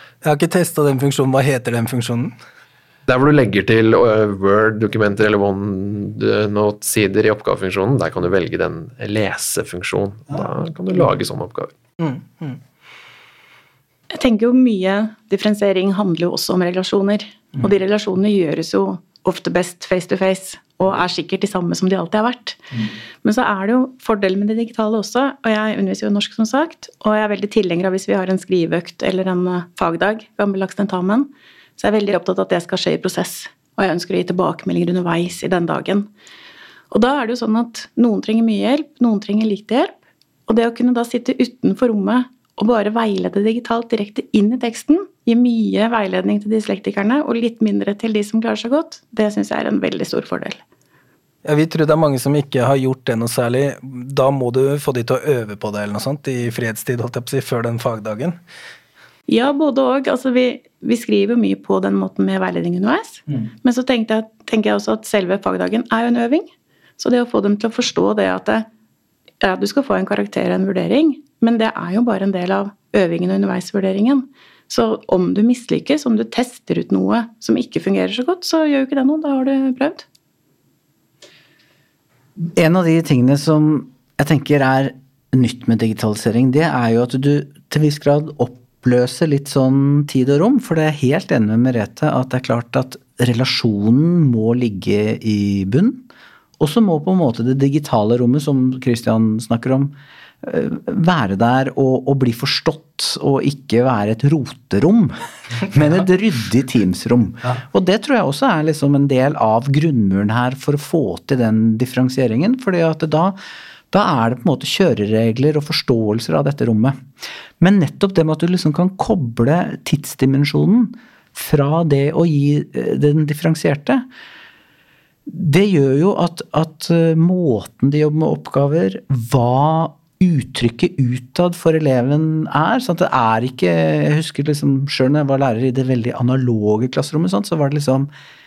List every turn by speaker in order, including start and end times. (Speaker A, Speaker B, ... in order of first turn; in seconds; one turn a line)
Speaker A: 0.2-2.3
Speaker B: 3.1-11.7
Speaker A: 12.0-12.6
Speaker C: 14.1-22.6
Speaker C: 23.2-36.1
Speaker C: 36.9-40.0
Speaker C: 40.5-50.6
Speaker A: 51.4-58.4
Speaker C: 59.3-68.7
Speaker C: 69.4-80.0
Speaker D: 82.5-96.1
Speaker D: 96.6-113.4
Speaker D: 113.9-117.0
Speaker D: 117.6-124.1
Speaker D: 125.3-138.1